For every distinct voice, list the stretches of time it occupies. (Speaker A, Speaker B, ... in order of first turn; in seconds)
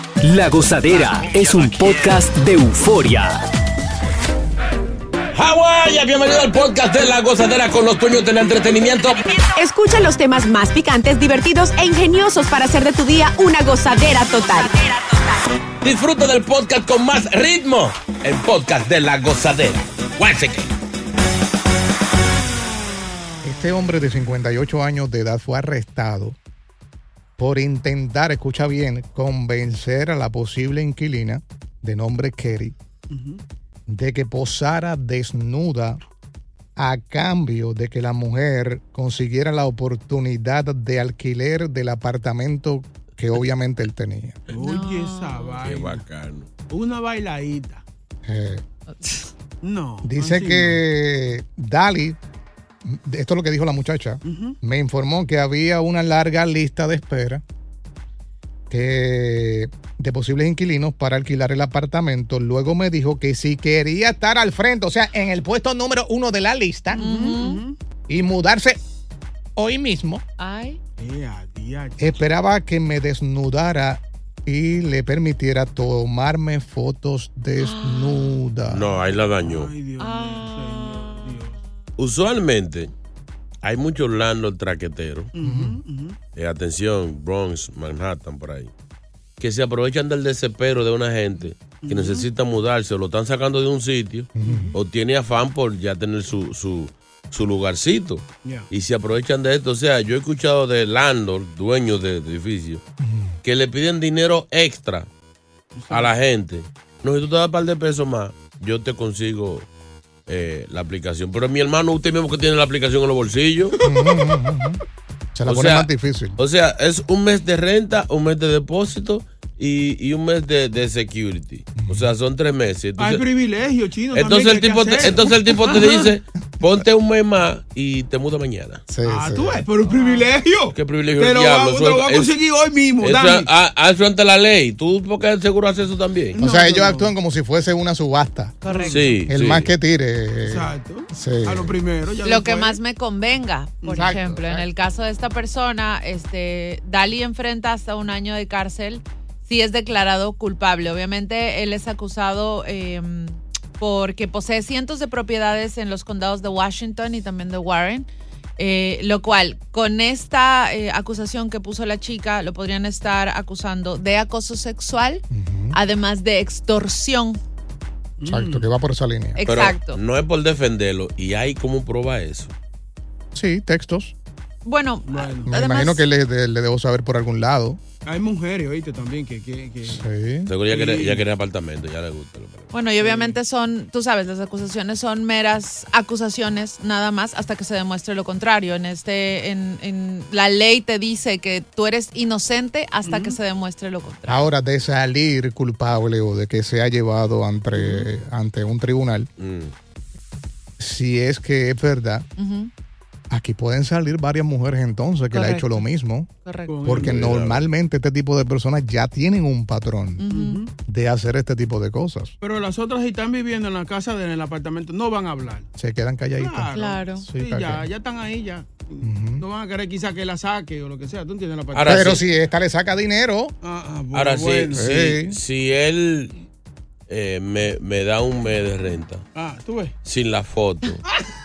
Speaker A: 0.2-3.4
Speaker B: 5.3-9.4, 15.8-20.7, 45.6-46.5, 78.7-79.7, 82.0-82.9, 83.6-85.3, 86.3-88.7, 89.4-102.8, 103.4-105.1, 105.9-109.7, 110.3-113.8, 115.5-123.2, 124.1-128.8, 130.7-132.3, 133.0-136.4, 138.9-139.7, 169.5-172.5, 180.5-182.7, 199.4-199.7, 207.0-207.6, 221.7-222.2, 224.1-226.4, 227.1-229.2, 230.1-231.0
Speaker C: 9.4-14.8
Speaker D: 23.4-26.4, 27.4-32.8, 33.9-36.0, 36.8-44.4, 48.2-48.6, 50.0-52.2, 52.8-57.4, 58.7-67.0, 68.1-68.8, 69.6-70.2, 72.0-78.9, 85.4-85.8, 94.4-94.7, 103.0-103.3, 113.8-114.8, 115.3-116.4, 121.8-122.1, 128.9-129.6, 136.4-138.7, 139.3-141.8, 143.9-144.7, 165.3-165.8, 168.3-169.4, 173.3-174.1, 175.5-177.8, 179.8-180.5, 194.3-199.3, 200.8-202.3, 203.3-206.3, 206.8-210.3, 210.9-212.3, 215.8-217.9, 219.0-219.4, 221.8-223.5, 224.7-225.4
Speaker E: 33.1-33.4, 44.5-46.0, 46.7-47.8, 49.6-50.8, 54.2-54.6, 67.0-67.8, 71.0-72.2, 79.4-81.5, 85.3-86.2, 91.6-92.3, 94.4-94.8, 105.8-106.1, 113.8-114.1, 123.0-126.1, 129.0-133.5, 136.3-137.1, 138.7-139.1, 140.4-142.8, 143.8-144.2, 168.2-168.7, 175.1-175.5, 178.1-180.0, 180.7-181.2, 183.0-183.4, 193.0-193.4, 206.7-207.3, 210.3-210.7, 212.4-215.7, 216.4-222.2, 223.6-225.0, 229.3-229.9
Speaker F: 44.5-45.6, 49.0-49.3, 67.0-67.6, 70.4-70.8, 77.6-78.4, 80.0-81.5, 129.8-130.3, 138.6-139.2, 142.2-158.1, 158.6-167.4, 169.4-170.0, 174.7-176.1, 182.7-194.5, 202.4-202.7, 205.3-205.8, 206.4-206.8, 210.2-210.6, 216.7-217.3